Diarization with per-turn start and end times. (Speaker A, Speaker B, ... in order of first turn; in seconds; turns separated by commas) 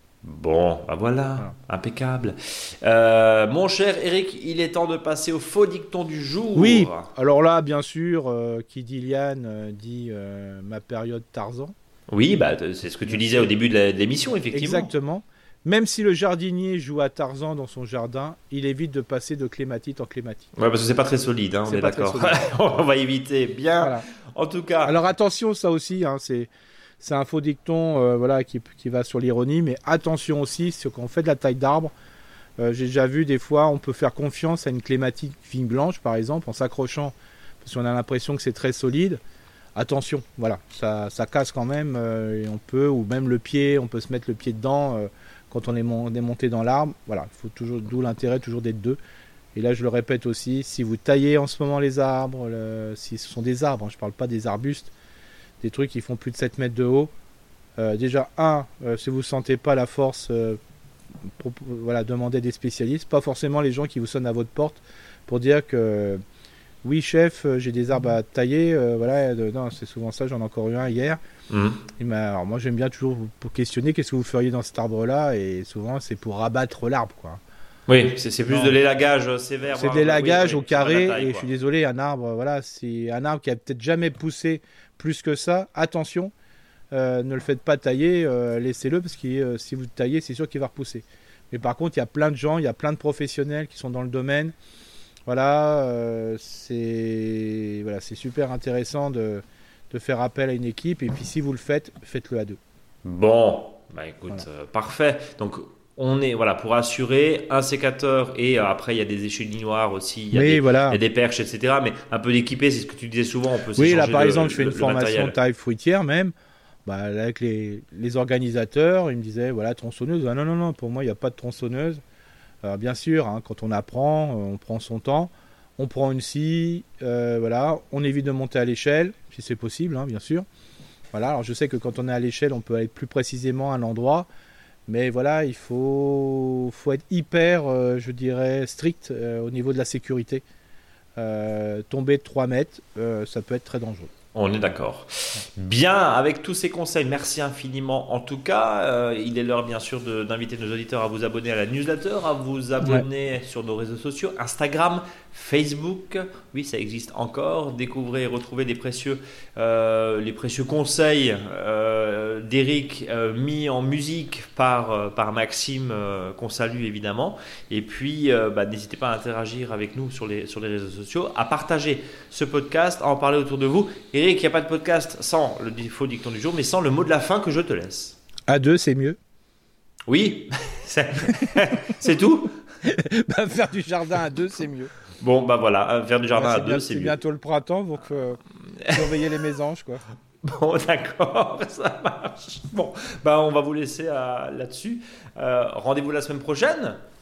Speaker A: 0.2-7.1, Speaker B: 6.5-11.8, Speaker A: 12.1-14.9, Speaker B: 13.1-13.5, Speaker B: 14.5-20.5, Speaker A: 20.6-25.0, Speaker B: 21.7-22.4, Speaker B: 23.8-24.1, Speaker B: 24.8-31.9, Speaker B: 32.6-39.2, Speaker B: 39.8-49.0, Speaker B: 49.5-54.9, Speaker B: 55.6-57.1, Speaker B: 57.8-60.6, Speaker B: 61.2-66.2, Speaker B: 66.8-71.2, Speaker A: 71.5-71.8, Speaker B: 72.0-77.4, Speaker A: 77.9-81.5, Speaker B: 78.5-78.8, Speaker B: 79.7-86.3, Speaker B: 86.9-94.5, Speaker B: 95.3-102.6, Speaker A: 103.0-115.3, Speaker B: 110.3-111.0, Speaker B: 113.8-116.3, Speaker B: 116.8-122.0, Speaker B: 122.6-130.5, Speaker B: 131.1-134.3, Speaker B: 134.9-140.4, Speaker B: 141.2-144.1, Speaker A: 144.3-178.2, Speaker B: 178.5-179.2, Speaker A: 180.1-182.6, Speaker B: 182.8-184.9, Speaker A: 185.2-187.2, Speaker B: 186.3-190.0, Speaker A: 190.4-197.0